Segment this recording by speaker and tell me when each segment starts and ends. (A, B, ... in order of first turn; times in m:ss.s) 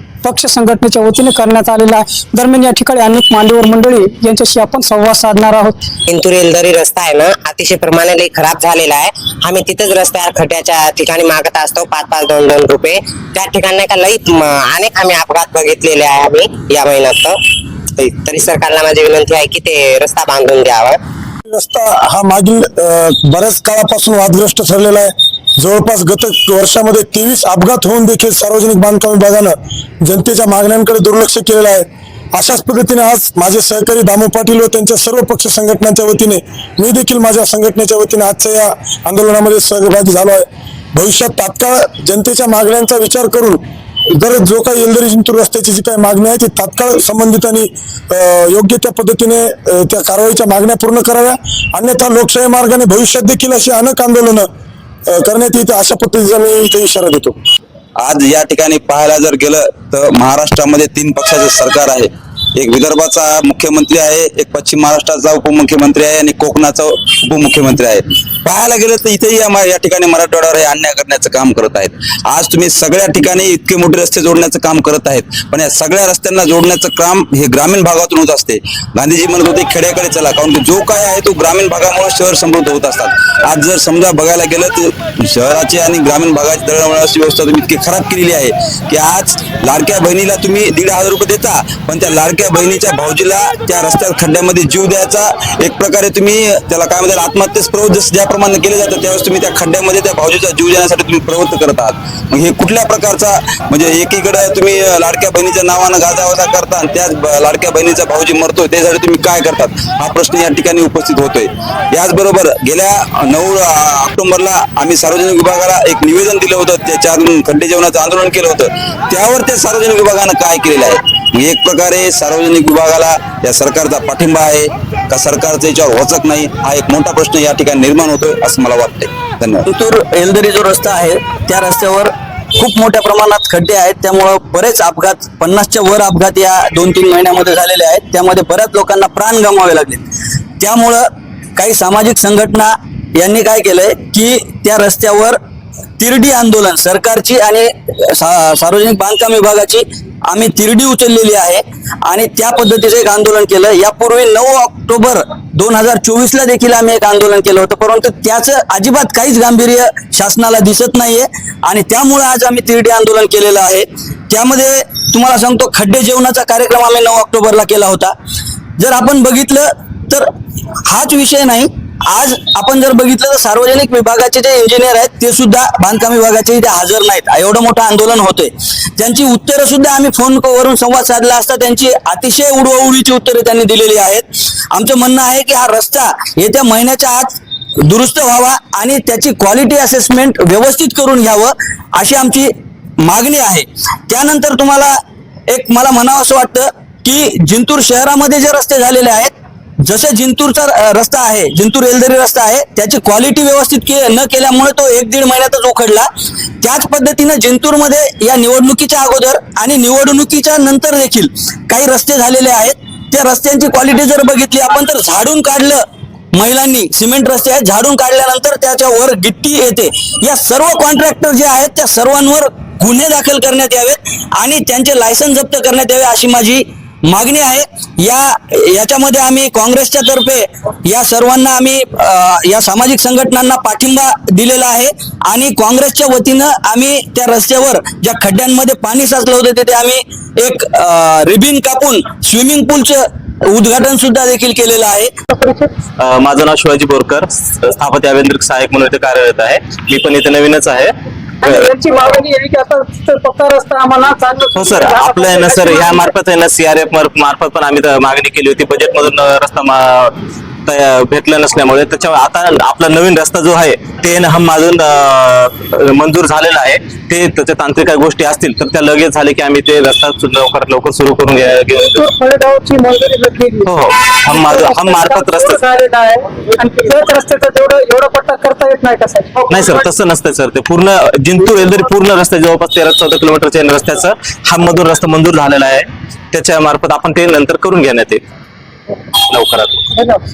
0:00.2-0:05.8 A
0:06.1-0:17.4 B
0:18.0-0:21.0 B
0:21.5-0:43.6 C
0:44.2-0:54.5 C
0:55.1-0:57.4 C
0:58.0-2:09.7 D
2:09.7-2:20.1 E
2:20.6-2:21.0 E
2:21.6-2:25.4 E
2:26.0-2:48.1 E
2:48.8-2:50.2 E
2:50.9-3:12.5 E
3:13.0-3:15.0 E
3:15.5-3:19.3 E
3:19.8-3:26.1 E
3:26.6-3:35.8 E
3:36.3-4:05.1 E
4:05.3-4:05.7 A
4:06.0-4:11.7 F
4:11.4-4:16.1 A
4:14.6-4:20.1 F
4:20.7-4:32.0 F
4:31.9-4:33.7 A
4:33.7-4:35.6 F
4:34.3-4:39.8 A
4:39.5-4:48.2 F
4:49.3-4:49.8 F
4:49.9-4:50.2 A